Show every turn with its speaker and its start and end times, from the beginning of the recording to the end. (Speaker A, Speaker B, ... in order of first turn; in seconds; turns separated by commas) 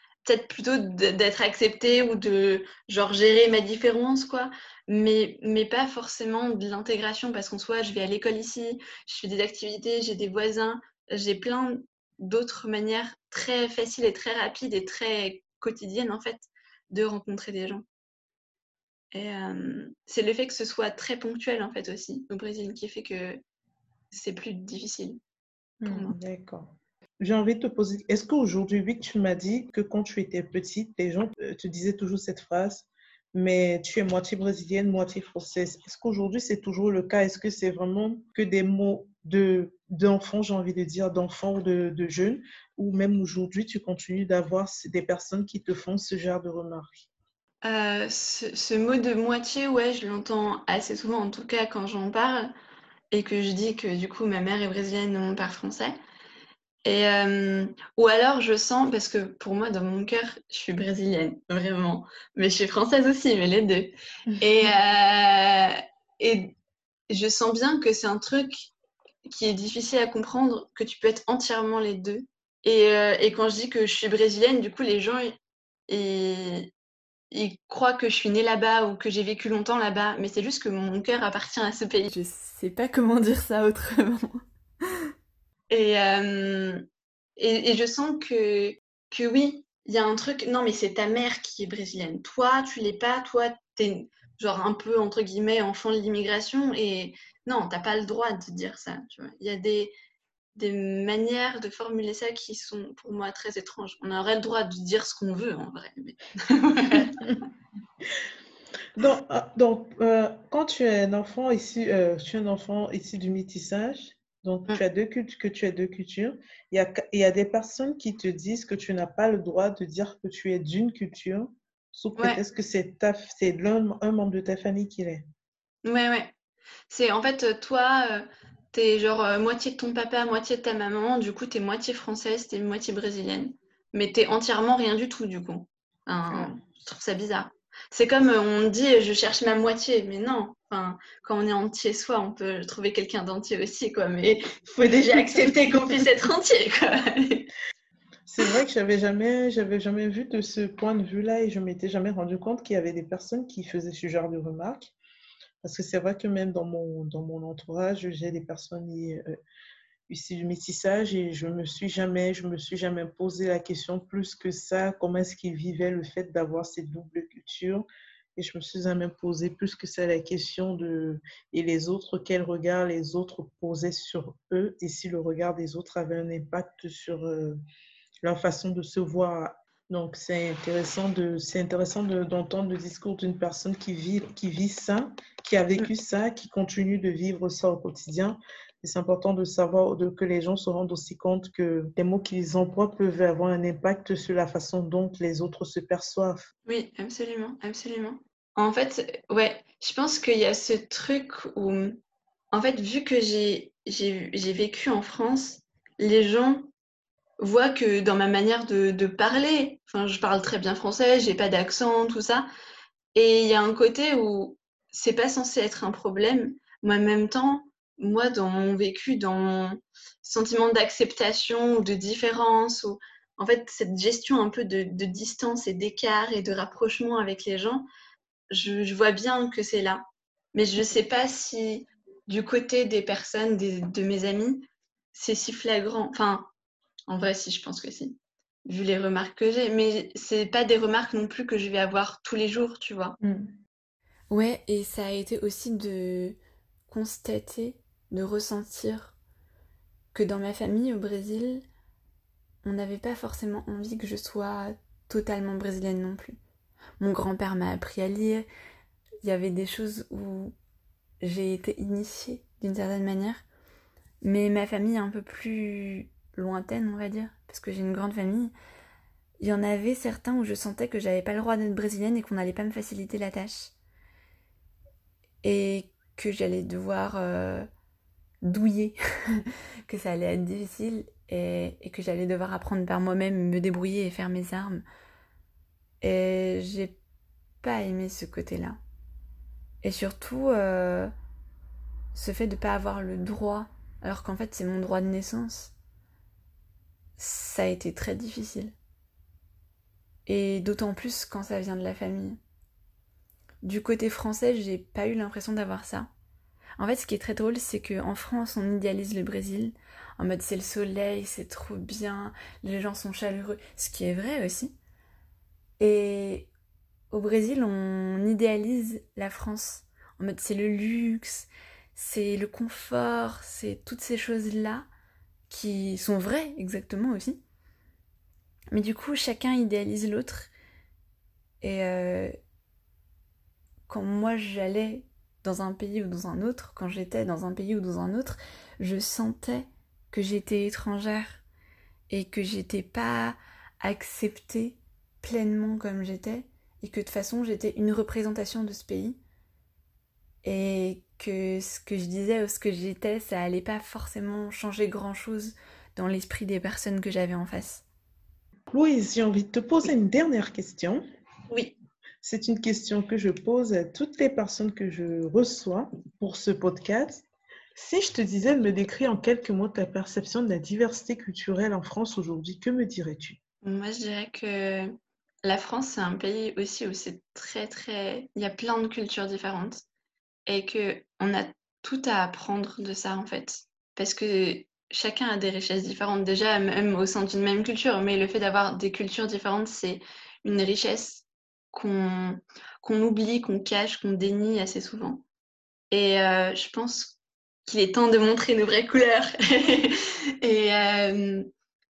Speaker A: 0.2-17.8, Speaker A: 19.1-23.4, Speaker A: 24.1-25.2, Speaker B: 25.8-47.1, Speaker A: 25.9-26.1, Speaker A: 47.6-52.5, Speaker A: 53.1-56.0, Speaker A: 56.8-66.5, Speaker B: 64.3-64.7, Speaker A: 67.1-68.7, Speaker A: 69.2-75.3, Speaker A: 75.9-76.7, Speaker A: 77.3-82.1, Speaker C: 82.1-84.4, Speaker A: 85.7-86.8, Speaker A: 87.4-99.9, Speaker A: 100.5-107.2, Speaker B: 107.0-107.4, Speaker B: 109.0-125.2, Speaker A: 125.8-126.3, Speaker A: 126.9-147.5, Speaker B: 144.8-145.9, Speaker B: 148.3-154.9, Speaker B: 155.6-159.2, Speaker B: 160.1-177.6, Speaker B: 178.2-196.5, Speaker A: 196.7-202.0, Speaker A: 202.5-206.7, Speaker A: 207.4-212.5, Speaker A: 213.1-227.9, Speaker A: 228.5-236.5, Speaker A: 237.1-243.2, Speaker C: 244.3-249.2, Speaker C: 250.1-251.6, Speaker C: 252.6-256.4, Speaker C: 257.0-258.5, Speaker C: 259.2-260.5, Speaker C: 261.2-263.4, Speaker C: 264.2-268.5, Speaker C: 269.4-273.7, Speaker C: 275.4-277.7, Speaker C: 278.4-284.8, Speaker C: 286.0-287.0, Speaker C: 287.6-288.8, Speaker C: 289.8-291.1, Speaker C: 292.1-295.7, Speaker C: 297.2-298.8, Speaker C: 300.2-302.4, Speaker C: 303.6-306.1, Speaker C: 306.8-314.8, Speaker C: 315.8-316.5, Speaker C: 317.1-324.9, Speaker C: 325.5-327.4, Speaker C: 328.7-330.5, Speaker C: 331.6-332.3, Speaker C: 333.9-341.4, Speaker C: 342.1-349.2, Speaker C: 350.4-357.8, Speaker B: 358.7-361.0, Speaker A: 361.5-361.8, Speaker B: 362.2-373.4, Speaker A: 373.6-379.8, Speaker A: 380.4-395.2, Speaker A: 395.9-401.5